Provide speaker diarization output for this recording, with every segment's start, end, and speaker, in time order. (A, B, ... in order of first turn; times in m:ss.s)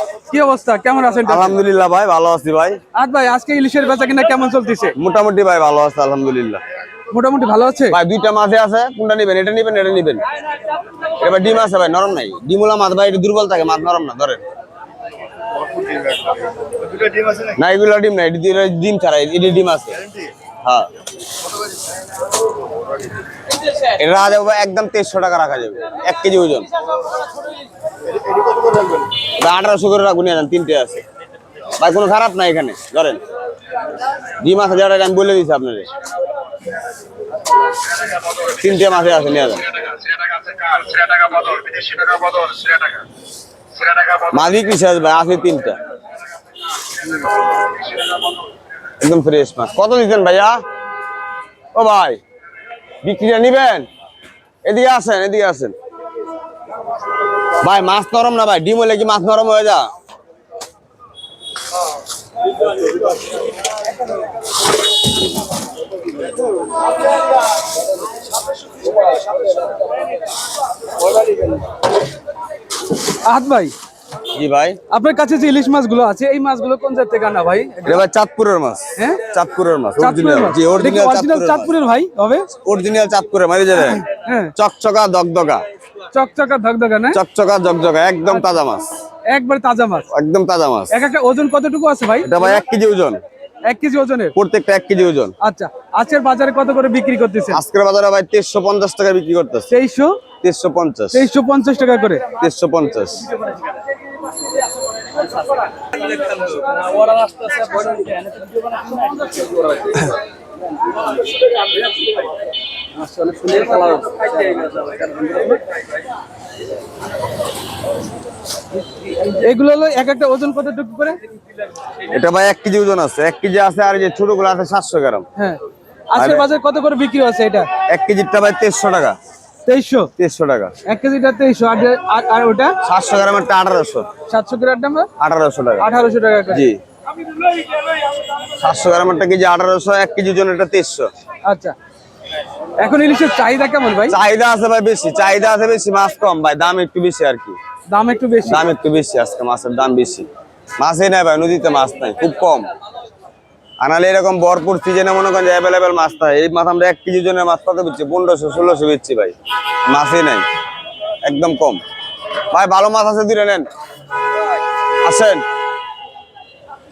0:00.3-0:01.6 A
0:01.2-0:02.8 B
0:03.0-0:04.9 A
0:05.0-0:06.6 B
0:07.1-0:08.0 A
0:07.9-0:10.2 B
0:11.2-0:14.4 B
0:17.4-0:20.0 B
0:20.6-0:20.9 B
0:23.9-0:26.7 B
0:29.2-0:31.0 B
0:31.8-0:33.2 B
0:34.4-0:35.9 B
0:38.3-0:40.1 B
0:41.2-0:41.5 B
0:42.3-0:42.5 B
0:43.9-0:45.8 B
0:49.0-0:50.6 B
0:51.7-0:52.2 B
0:53.0-0:53.9 B
0:54.6-0:55.7 B
0:57.6-0:59.9 B
1:13.2-1:13.7 A
1:14.3-1:14.8 B
1:14.9-1:18.0 A
1:17.8-1:21.7 B
1:19.0-1:19.2 A
1:20.0-1:22.5 A
1:22.6-1:25.6 B
1:24.0-1:24.5 A
1:26.1-1:27.2 A
1:27.1-1:28.9 B
1:29.3-1:30.1 A
1:30.1-1:30.9 B
1:30.9-1:32.6 A
1:32.2-1:33.2 B
1:33.6-1:34.3 A
1:34.4-1:35.3 B
1:35.4-1:37.6 A
1:37.5-1:39.7 B
1:39.7-1:40.2 A
1:40.4-1:41.2 B
1:41.1-1:42.3 A
1:42.4-1:43.2 B
1:53.2-1:55.4 A
1:59.3-2:01.2 A
2:02.1-2:05.2 B
2:05.4-2:07.7 A
2:06.2-2:06.4 B
2:07.9-2:09.2 B
2:09.6-2:10.1 A
2:10.2-2:10.7 B
2:10.8-2:12.7 A
2:12.8-2:14.1 B
2:14.3-2:15.1 A
2:15.2-2:15.9 B
2:15.8-2:16.7 A
2:16.5-2:16.8 B
2:18.6-2:21.1 B
2:21.4-2:21.7 A
2:22.8-2:24.2 A
2:24.1-2:27.6 B
2:27.9-2:28.6 A
2:28.5-2:30.3 B
2:30.8-2:32.7 B
2:33.8-2:39.3 B
2:39.8-2:40.4 B
2:41.2-2:41.8 B
2:42.5-2:43.6 B
2:45.0-2:45.4 B